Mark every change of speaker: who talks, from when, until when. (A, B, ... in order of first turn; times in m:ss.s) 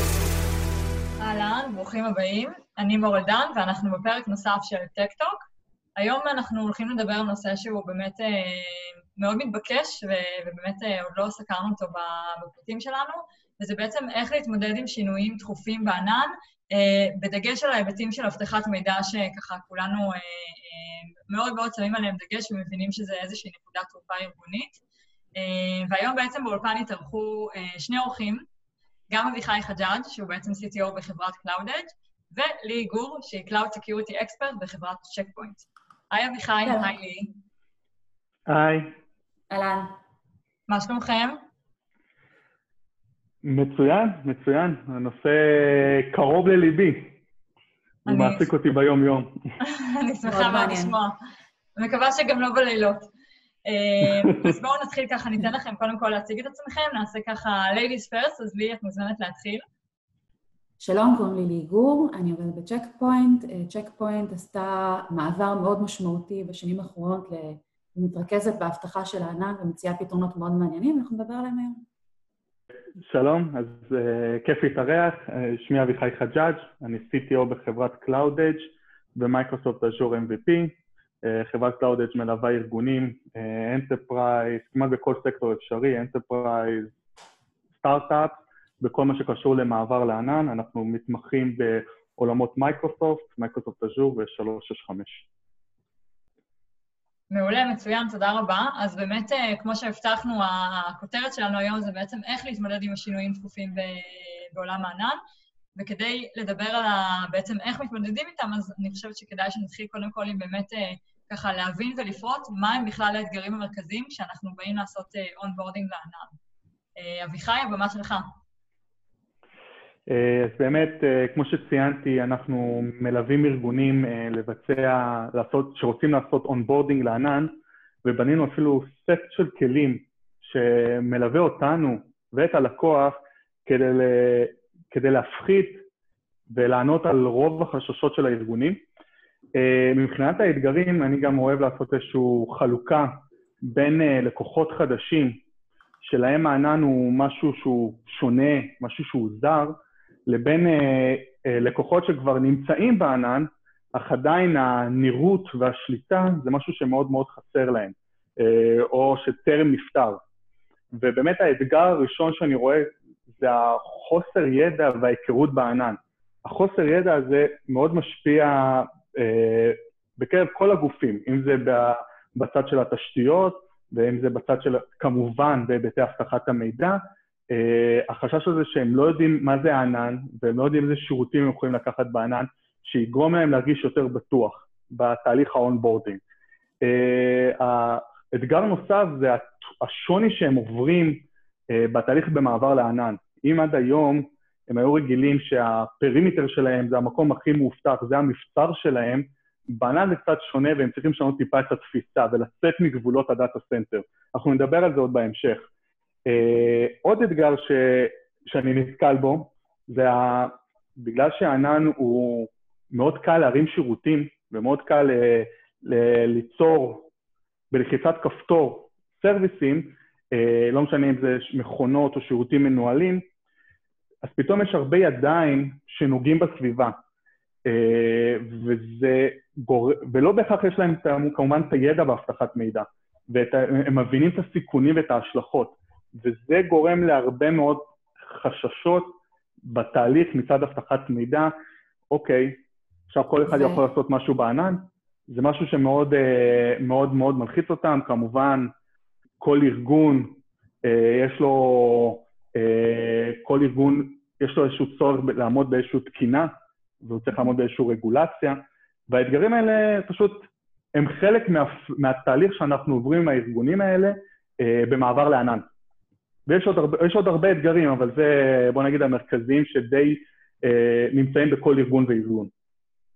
0:01.2-0:24.8 A
0:25.4-0:28.4 A
0:29.1-0:37.3 A
0:36.6-0:36.9 B
0:38.5-0:38.9 C
0:39.5-0:39.9 B
0:40.7-0:41.4 A
0:43.4-0:47.2 C
0:48.1-0:49.3 C
0:48.1-0:48.5 A
0:49.6-0:51.2 A
0:50.2-0:51.0 B
0:51.8-0:53.1 A
0:53.6-0:59.6 A
1:00.8-1:11.8 B
1:13.0-1:26.9 C
1:27.8-1:35.3 C
1:37.3-1:45.2 A
1:45.8-1:56.4 A
1:57.0-1:58.3 A
2:00.1-2:07.5 C
2:08.0-2:15.8 C
2:16.5-2:18.8 C
2:19.6-2:25.4 C
2:26.0-2:29.8 C
2:30.3-2:40.2 C
2:40.9-3:06.2 C
3:06.8-3:25.7 C
3:26.3-3:37.1 C
3:37.7-3:43.3 C
3:44.2-3:47.0 C
3:47.6-4:01.5 C
4:02.1-4:08.7 C
4:03.5-4:03.8 B
4:09.4-4:25.7 C
4:26.5-4:32.5 C